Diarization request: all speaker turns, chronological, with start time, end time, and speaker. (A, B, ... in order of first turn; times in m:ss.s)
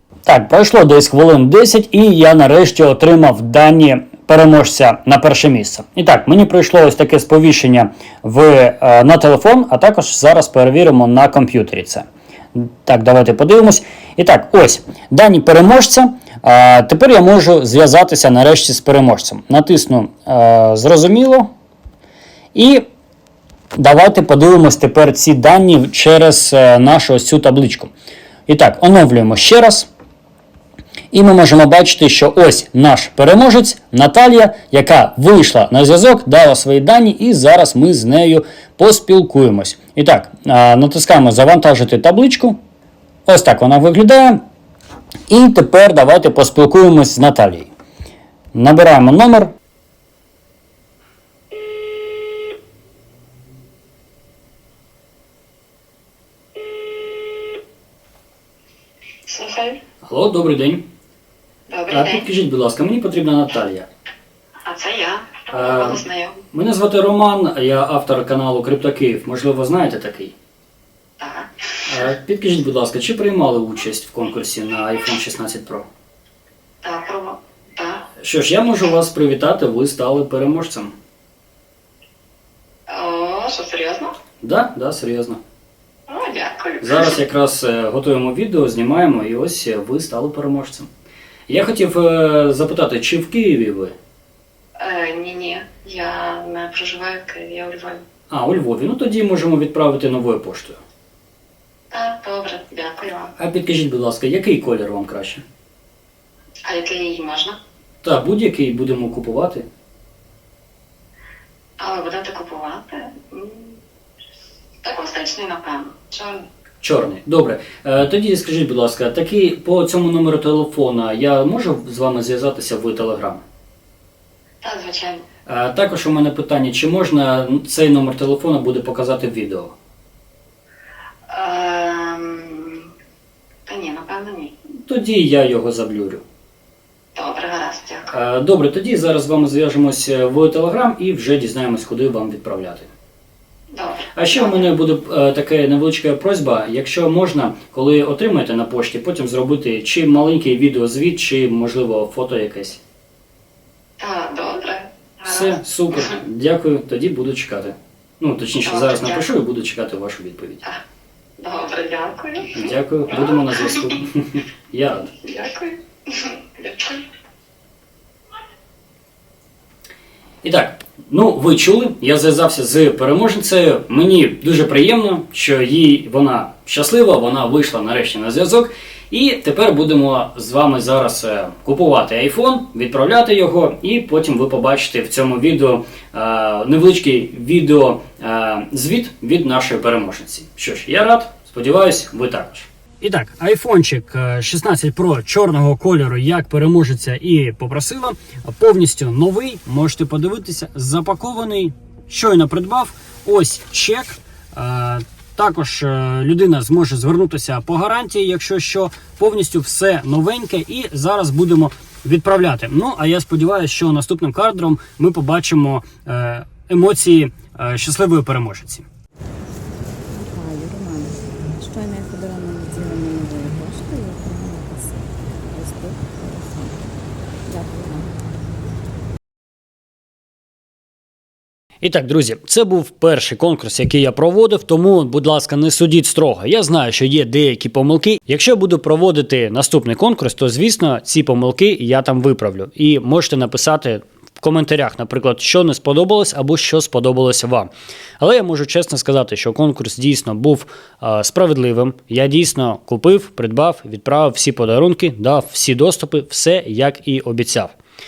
0:00.2-0:21.5 A
0:22.5-0:22.8 A
0:23.7-0:27.9 A
0:28.5-0:29.9 A
0:31.1-0:42.6 A
0:43.2-0:44.4 A
0:45.3-0:47.7 A
0:48.5-0:49.5 A
0:59.2-0:59.8 B
1:00.0-1:00.9 A
1:01.7-1:02.2 B
1:01.9-1:03.9 A
1:04.6-1:06.4 B
1:05.5-1:06.0 A
1:06.5-1:10.3 A
1:11.2-1:11.8 B
1:11.8-1:15.9 A
1:16.8-1:18.1 B
1:18.2-1:20.9 A
1:22.9-1:24.1 B
1:24.4-1:25.4 A
1:26.1-1:27.2 B
1:26.8-1:30.9 A
1:31.5-1:33.9 A
1:34.8-1:38.0 B
1:38.3-1:40.8 A
1:41.9-1:43.3 B
1:43.4-1:45.4 A
1:46.6-1:47.6 B
1:48.0-1:49.6 A
1:51.8-1:53.8 B
1:54.8-1:56.5 B
1:56.8-2:03.4 A
2:04.6-2:05.2 B
2:05.4-2:09.7 A
2:11.3-2:12.9 B
2:13.6-2:14.5 B
2:14.8-2:16.2 A
2:17.1-2:18.2 B
2:18.1-2:22.9 A
2:23.7-2:24.6 B
2:24.1-2:32.8 A
2:34.0-2:36.1 B
2:35.2-2:40.6 A
2:38.6-2:39.3 B
2:41.4-2:43.9 B
2:42.5-2:45.1 A
2:45.2-2:47.0 B
2:50.4-3:38.8 A
3:40.1-3:46.8 C
3:47.4-3:48.1 C
3:51.8-4:17.7 A